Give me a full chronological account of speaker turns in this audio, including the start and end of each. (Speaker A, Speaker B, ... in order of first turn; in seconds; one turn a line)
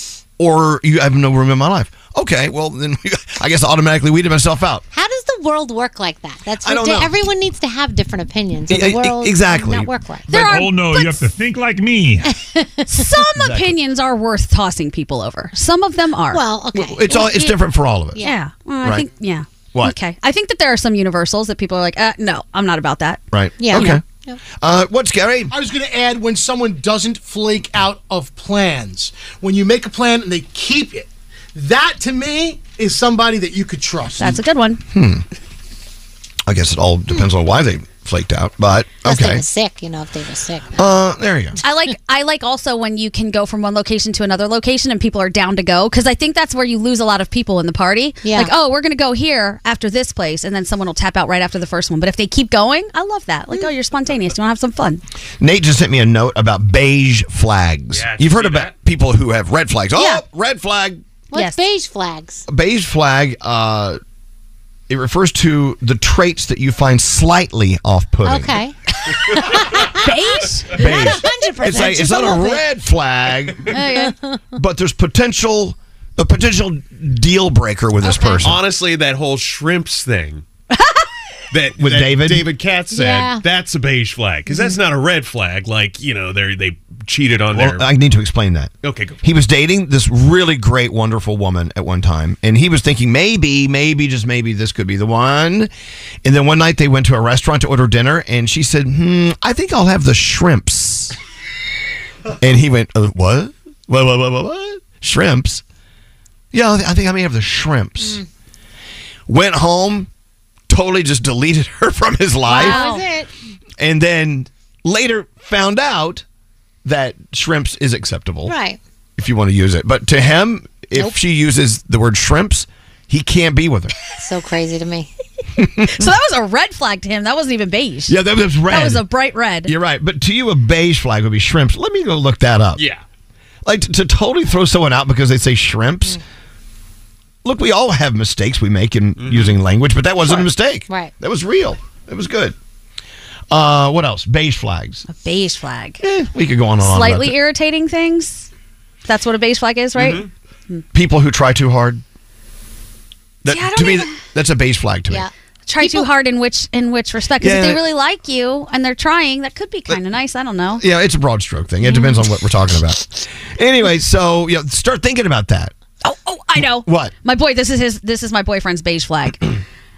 Speaker A: 0.4-4.8
Speaker B: 4.9-10.3
Speaker A: 6.6-7.2
Speaker A: 8.7-9.9
Speaker C: 10.3-11.3
Speaker D: 10.3-12.3
Speaker B: 12.2-13.1
Speaker C: 12.9-16.4
Speaker A: 13.4-13.7
Speaker B: 16.3-17.6
Speaker A: 16.7-18.2
Speaker C: 18.2-23.2
Speaker A: 23.3-24.0
Speaker B: 23.6-24.4
Speaker A: 24.6-25.5
Speaker E: 25.5-34.4
Speaker C: 34.2-34.8
Speaker A: 34.9-35.2
Speaker A: 36.5-39.4
Speaker B: 39.0-40.8
Speaker A: 40.8-41.6
Speaker C: 41.6-55.0
Speaker B: 48.2-48.5
Speaker A: 55.4-61.0
Speaker F: 57.9-58.7
Speaker C: 60.0-60.2
Speaker B: 61.3-62.5
Speaker C: 61.3-61.6
Speaker A: 62.5-64.0
Speaker A: 64.9-68.5
Speaker B: 68.2-68.8
Speaker B: 69.3-70.2
Speaker C: 70.0-71.2
Speaker B: 70.7-72.6
Speaker A: 70.7-73.7
Speaker C: 71.7-72.5
Speaker B: 73.7-74.4
Speaker C: 73.7-74.1
Speaker A: 74.5-78.6
Speaker B: 78.0-78.4
Speaker F: 78.4-80.4
Speaker F: 81.5-87.9
Speaker A: 81.8-82.5
Speaker B: 82.9-83.4
Speaker A: 87.5-95.7
Speaker F: 88.8-89.2
Speaker A: 96.2-101.1
Speaker A: 102.4-105.6
Speaker A: 106.5-108.2
Speaker B: 108.0-108.3
Speaker A: 109.3-110.1
Speaker A: 110.7-112.8
Speaker B: 112.5-113.3
Speaker C: 112.5-113.0
Speaker A: 113.8-116.2
Speaker A: 116.8-118.5
Speaker B: 118.5-118.8
Speaker A: 119.2-123.9
Speaker B: 124.2-125.1
Speaker A: 125.6-126.0
Speaker C: 125.9-129.7
Speaker A: 128.1-129.0
Speaker A: 129.6-132.8
Speaker F: 132.8-133.0
Speaker A: 133.7-136.2
Speaker A: 137.4-142.6
Speaker F: 139.2-139.6
Speaker B: 140.3-141.1
Speaker A: 143.5-145.0
Speaker C: 145.1-146.0
Speaker A: 146.0-147.3
Speaker C: 146.8-148.5
Speaker C: 149.1-150.8
Speaker F: 149.9-150.3
Speaker A: 150.9-152.0
Speaker A: 153.4-155.2
Speaker C: 153.5-154.2
Speaker B: 155.1-156.1
Speaker C: 155.7-160.8
Speaker A: 157.4-157.8
Speaker A: 160.8-165.7
Speaker C: 166.0-169.5
Speaker A: 166.8-167.1